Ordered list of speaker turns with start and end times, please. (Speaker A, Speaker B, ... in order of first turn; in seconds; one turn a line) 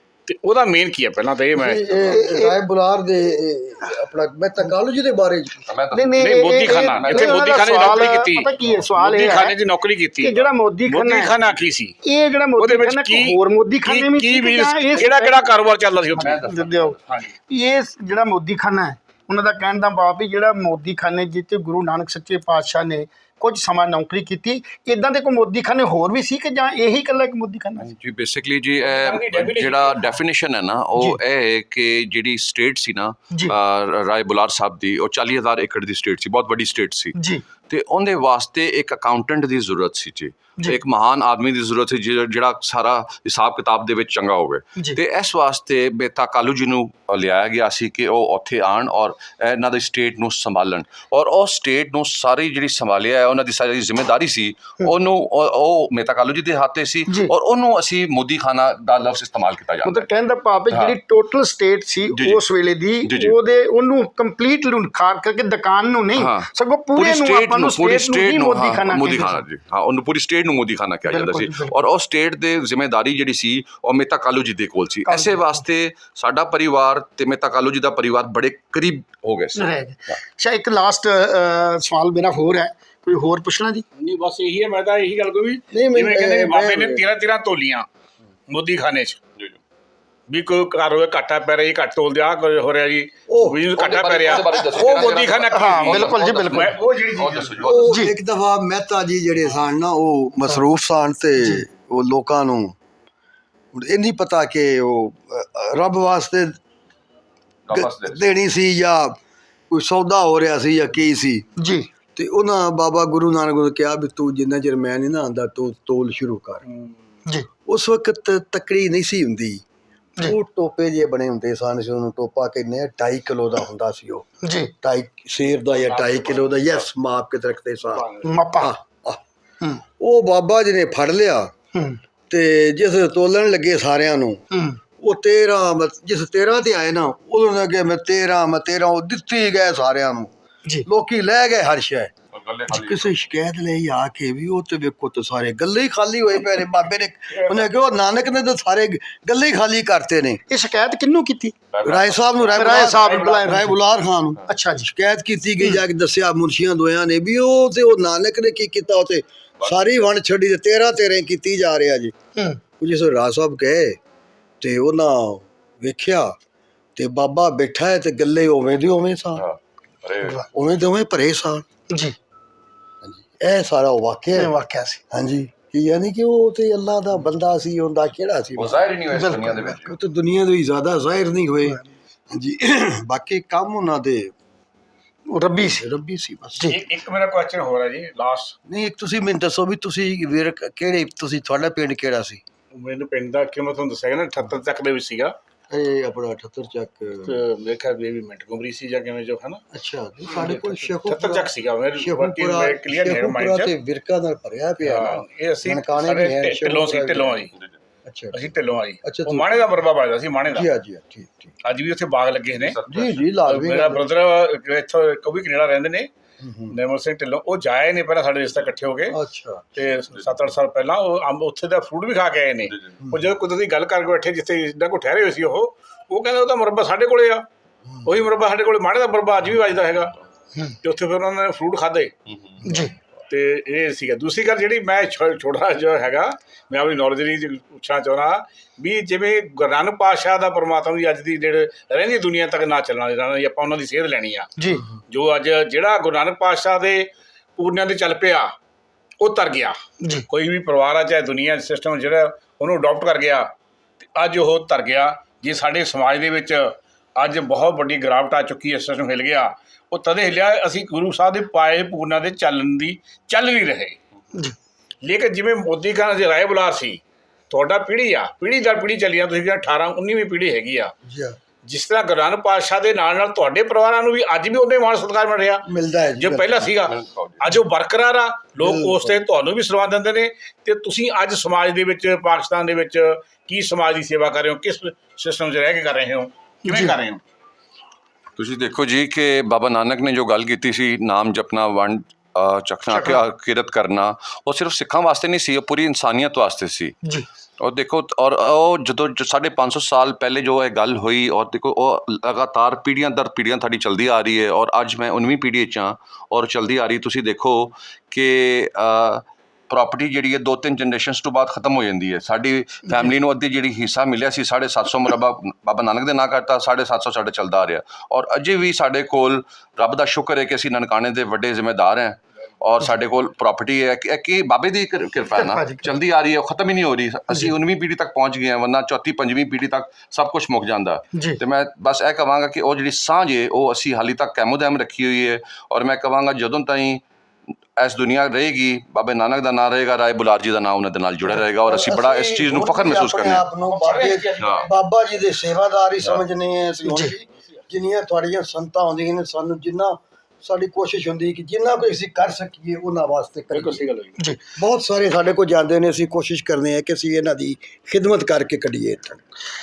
Speaker A: 0.3-2.0
Speaker B: 1.5-5.7
Speaker C: 2.1-2.6
Speaker D: 5.7-8.0
Speaker C: 5.9-9.6
Speaker A: 6.2-11.9
Speaker C: 10.2-11.3
Speaker C: 12.0-15.5
Speaker A: 12.6-16.4
Speaker D: 16.1-17.0
Speaker C: 16.2-17.0
Speaker A: 17.1-17.3
Speaker C: 17.5-27.9
Speaker D: 27.8-37.1
Speaker A: 28.9-30.1
Speaker C: 37.1-37.4
Speaker D: 37.7-60.0
Speaker C: 59.9-69.4
Speaker D: 60.7-61.0
Speaker D: 62.1-62.4
Speaker D: 63.0-63.4
Speaker D: 66.2-80.1
Speaker C: 71.1-71.7
Speaker C: 75.1-75.5
Speaker C: 79.5-83.8
Speaker A: 84.0-87.9
Speaker B: 85.7-87.0
Speaker A: 88.5-89.2
Speaker A: 90.3-97.8
Speaker B: 93.3-93.7
Speaker D: 93.7-97.9
Speaker C: 95.5-96.8
Speaker B: 97.6-102.8
Speaker C: 97.8-98.1
Speaker B: 103.7-106.5
Speaker D: 107.7-108.2
Speaker B: 107.7-109.2
Speaker B: 109.7-111.5
Speaker C: 111.6-111.9
Speaker B: 112.1-116.6
Speaker B: 117.7-119.6
Speaker B: 120.2-124.3
Speaker C: 124.4-124.7
Speaker B: 124.8-128.1
Speaker A: 125.8-126.8
Speaker A: 127.9-128.3
Speaker C: 128.2-128.7
Speaker B: 128.6-129.2
Speaker B: 130.0-131.5
Speaker C: 131.7-132.0
Speaker B: 132.3-134.4
Speaker C: 134.5-134.8
Speaker B: 135.0-140.3
Speaker B: 140.9-142.1
Speaker D: 142.3-143.1
Speaker B: 142.7-150.4
Speaker C: 150.5-151.6
Speaker D: 151.7-152.8
Speaker B: 151.8-162.1
Speaker C: 152.6-153.8
Speaker A: 152.8-153.4
Speaker C: 154.5-154.9
Speaker D: 159.6-159.9
Speaker B: 162.8-164.0
Speaker B: 164.6-166.3
Speaker B: 166.9-169.4
Speaker D: 169.4-170.4
Speaker B: 170.5-171.6
Speaker C: 171.9-172.2
Speaker B: 173.0-174.5
Speaker C: 174.3-175.0
Speaker B: 175.1-184.3
Speaker D: 178.6-179.9
Speaker C: 179.1-179.7
Speaker C: 185.3-185.8
Speaker B: 185.6-186.8
Speaker A: 186.7-188.6
Speaker B: 188.7-192.4
Speaker A: 192.7-195.4
Speaker B: 195.7-197.4
Speaker A: 197.2-199.6
Speaker B: 199.7-207.5
Speaker A: 200.3-203.7
Speaker A: 204.8-207.5
Speaker B: 208.1-208.5
Speaker A: 208.3-210.7
Speaker B: 209.0-209.6
Speaker B: 210.5-211.6
Speaker A: 211.6-212.8
Speaker D: 212.5-213.2
Speaker B: 212.9-214.1
Speaker A: 213.4-216.1
Speaker B: 216.4-216.8
Speaker A: 216.7-219.2
Speaker B: 219.1-219.7
Speaker A: 219.7-227.4
Speaker B: 223.0-223.3
Speaker B: 227.9-228.1
Speaker A: 228.1-230.1
Speaker A: 230.8-232.1
Speaker C: 232.6-232.9
Speaker A: 233.3-244.5
Speaker C: 244.6-244.8
Speaker A: 245.1-248.5
Speaker A: 249.2-249.8
Speaker C: 250.0-250.2
Speaker A: 250.3-253.5
Speaker A: 254.0-264.0
Speaker A: 265.0-270.9
Speaker B: 271.0-271.4
Speaker A: 271.6-275.7
Speaker B: 275.6-276.8
Speaker A: 276.2-287.2
Speaker D: 276.9-277.4
Speaker B: 278.6-279.2
Speaker C: 286.7-286.9
Speaker D: 288.4-296.9
Speaker C: 292.9-293.2
Speaker D: 297.6-337.0
Speaker C: 325.4-325.9
Speaker C: 331.1-331.4
Speaker D: 337.8-343.4
Speaker B: 341.7-353.8
Speaker A: 343.6-344.7
Speaker D: 344.4-344.7
Speaker C: 346.9-347.1
Speaker A: 353.5-354.2
Speaker B: 354.6-359.2